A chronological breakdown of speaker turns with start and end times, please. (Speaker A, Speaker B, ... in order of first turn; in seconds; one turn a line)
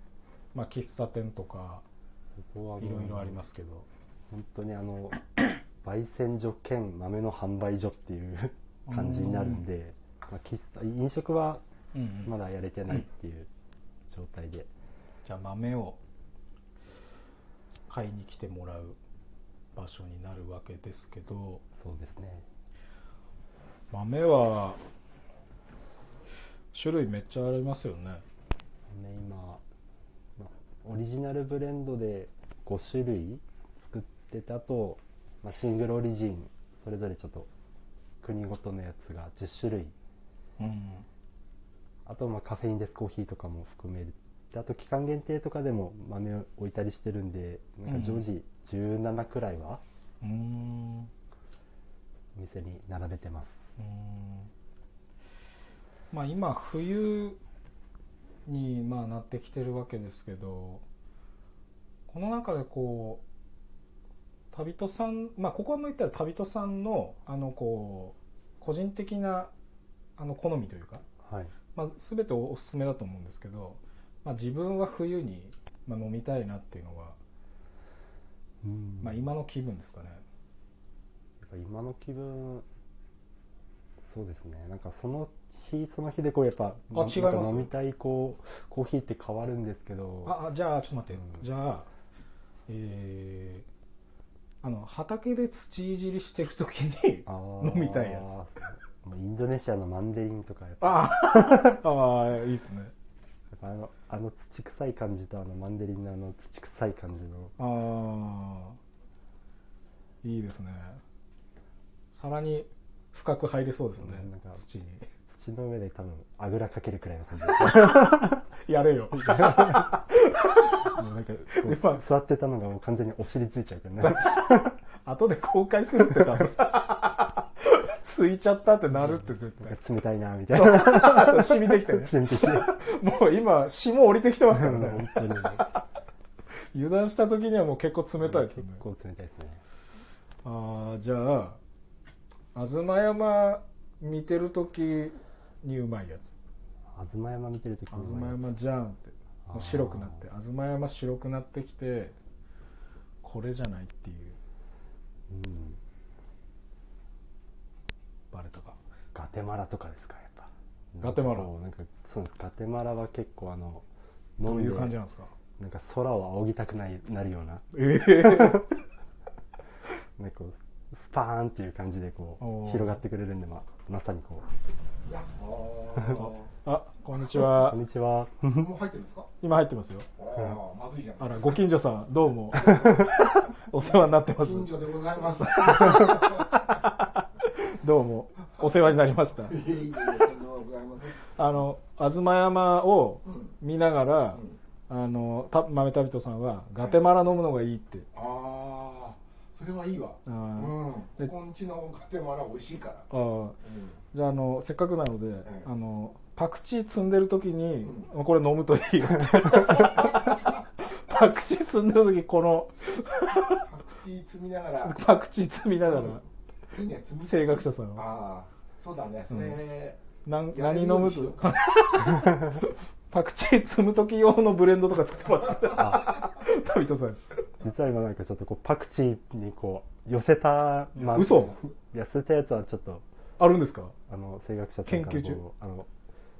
Speaker A: 0.5-1.8
Speaker B: 2.4-3.4
Speaker A: 2.8-3.9
Speaker B: 4.3-5.2
Speaker B: 5.8-11.6
Speaker A: 8.9-9.6
Speaker A: 11.9-12.3
Speaker B: 12.2-13.5
Speaker B: 14.1-14.7
Speaker A: 15.2-16.0
Speaker A: 17.9-19.0
Speaker A: 19.8-21.6
Speaker B: 21.7-22.4
Speaker A: 23.9-24.8
Speaker A: 26.7-28.2
Speaker B: 28.9-29.6
Speaker B: 30.4-37.5
Speaker B: 38.2-39.9
Speaker A: 40.6-41.0
Speaker B: 42.0-49.8
Speaker A: 47.9-48.2
Speaker A: 50.2-51.1
Speaker B: 52.3-53.6
Speaker A: 53.8-54.5
Speaker A: 56.1-57.4
Speaker A: 58.5-60.8
Speaker A: 62.1-63.2
Speaker A: 64.5-69.5
Speaker A: 70.2-71.0
Speaker B: 71.2-71.5
Speaker A: 71.7-77.2
Speaker B: 78.6-79.2
Speaker A: 79.0-80.2
Speaker B: 81.4-82.7
Speaker B: 84.0-90.3
Speaker A: 86.9-87.7
Speaker A: 90.2-91.9
Speaker A: 92.7-93.7
Speaker A: 94.6-98.3
Speaker B: 97.2-101.8
Speaker A: 100.8-102.9
Speaker B: 103.5-107.5
Speaker A: 107.6-108.8
Speaker A: 110.2-111.0
Speaker A: 112.1-115.1
Speaker B: 114.0-114.6
Speaker B: 115.3-118.5
Speaker A: 118.6-120.9
Speaker B: 119.2-120.0
Speaker B: 120.8-124.8
Speaker A: 121.5-122.0
Speaker A: 124.0-129.8
Speaker B: 128.9-132.7
Speaker A: 130.5-135.8
Speaker B: 134.5-135.6
Speaker A: 136.7-138.8
Speaker B: 138.2-139.6
Speaker A: 140.4-141.6
Speaker A: 142.5-146.3
Speaker B: 146.9-148.5
Speaker A: 147.9-152.1
Speaker B: 149.4-150.2
Speaker A: 153.2-154.4
Speaker B: 155.3-155.8
Speaker A: 158.3-158.8
Speaker B: 159.1-163.8
Speaker A: 161.0-161.5
Speaker B: 164.4-164.9
Speaker A: 164.4-165.3
Speaker B: 165.6-168.7
Speaker A: 167.7-168.7
Speaker B: 170.2-174.4
Speaker A: 172.4-173.0
Speaker C: 175.1-176.5
Speaker A: 176.1-177.8
Speaker B: 177.2-178.7
Speaker C: 178.6-179.3
Speaker A: 179.4-180.1
Speaker C: 180.2-181.6
Speaker A: 181.2-184.7
Speaker B: 182.6-183.0
Speaker C: 184.4-186.5
Speaker A: 185.4-189.6
Speaker C: 189.5-191.3
Speaker A: 191.3-198.1
Speaker C: 193.2-193.5
Speaker C: 198.1-203.1
Speaker A: 200.2-201.3
Speaker A: 203.1-203.6
Speaker C: 203.6-204.0
Speaker A: 204.1-213.7
Speaker C: 207.8-208.1
Speaker C: 209.8-210.3
Speaker C: 213.7-215.0
Speaker A: 214.8-216.2
Speaker C: 216.7-220.0
Speaker A: 217.2-218.1
Speaker A: 219.3-219.6
Speaker A: 220.2-227.5
Speaker C: 220.5-221.5
Speaker B: 222.2-222.6
Speaker B: 227.6-233.0
Speaker C: 230.9-231.7
Speaker A: 231.1-231.5
Speaker A: 233.4-233.9
Speaker B: 234.1-235.9
Speaker A: 234.8-235.4